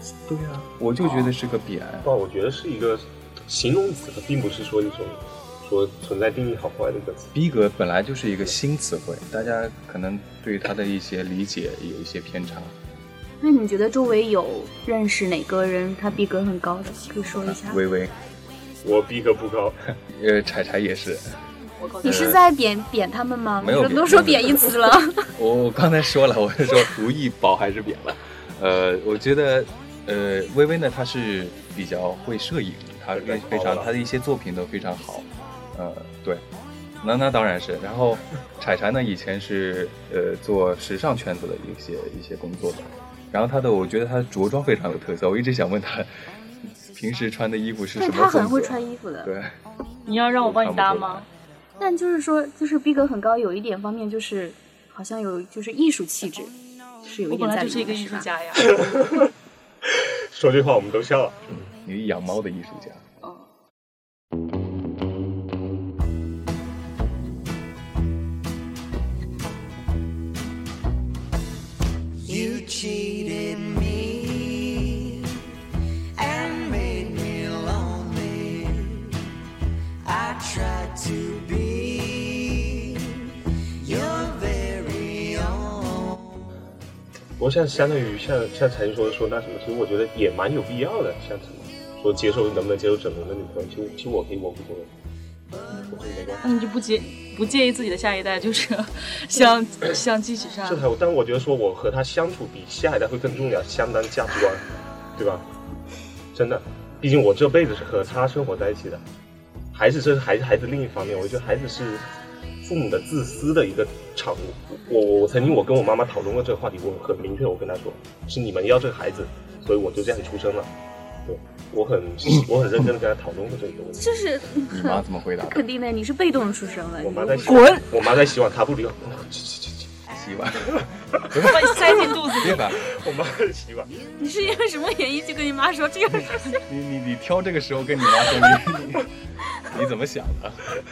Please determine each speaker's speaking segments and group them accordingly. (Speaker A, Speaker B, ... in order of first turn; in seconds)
Speaker A: 0.2-2.1, 7.3-12.7, 17.4-18.1, 20.0-21.2, 22.0-22.4, 23.6-24.7, 25.4-36.4, 37.0-46.1, 46.6-49.6, 50.4-51.3, 61.8-63.0, 124.7-125.7, 130.1-132.8, 136.6-139.1, 139.7-140.7
Speaker B: 2.0-7.3, 18.8-19.8, 33.1-33.9, 58.6-59.3, 59.8-61.7, 87.4-94.9, 95.7-96.4, 100.6-104.6, 105.2-105.5, 106.3-109.0, 109.7-112.0, 112.6-120.7, 121.2-124.2, 127.0-130.0, 132.7-133.9
Speaker C: 13.4-17.8, 22.0-25.2, 48.0-49.3, 51.8-58.3, 124.0-127.8, 134.2-136.6
Speaker D: 21.8-22.4, 50.0-51.3, 57.3-58.8, 96.4-100.8, 127.4-127.8, 131.4-132.7
Speaker E: 72.2-75.5, 76.1-79.1, 80.0-86.2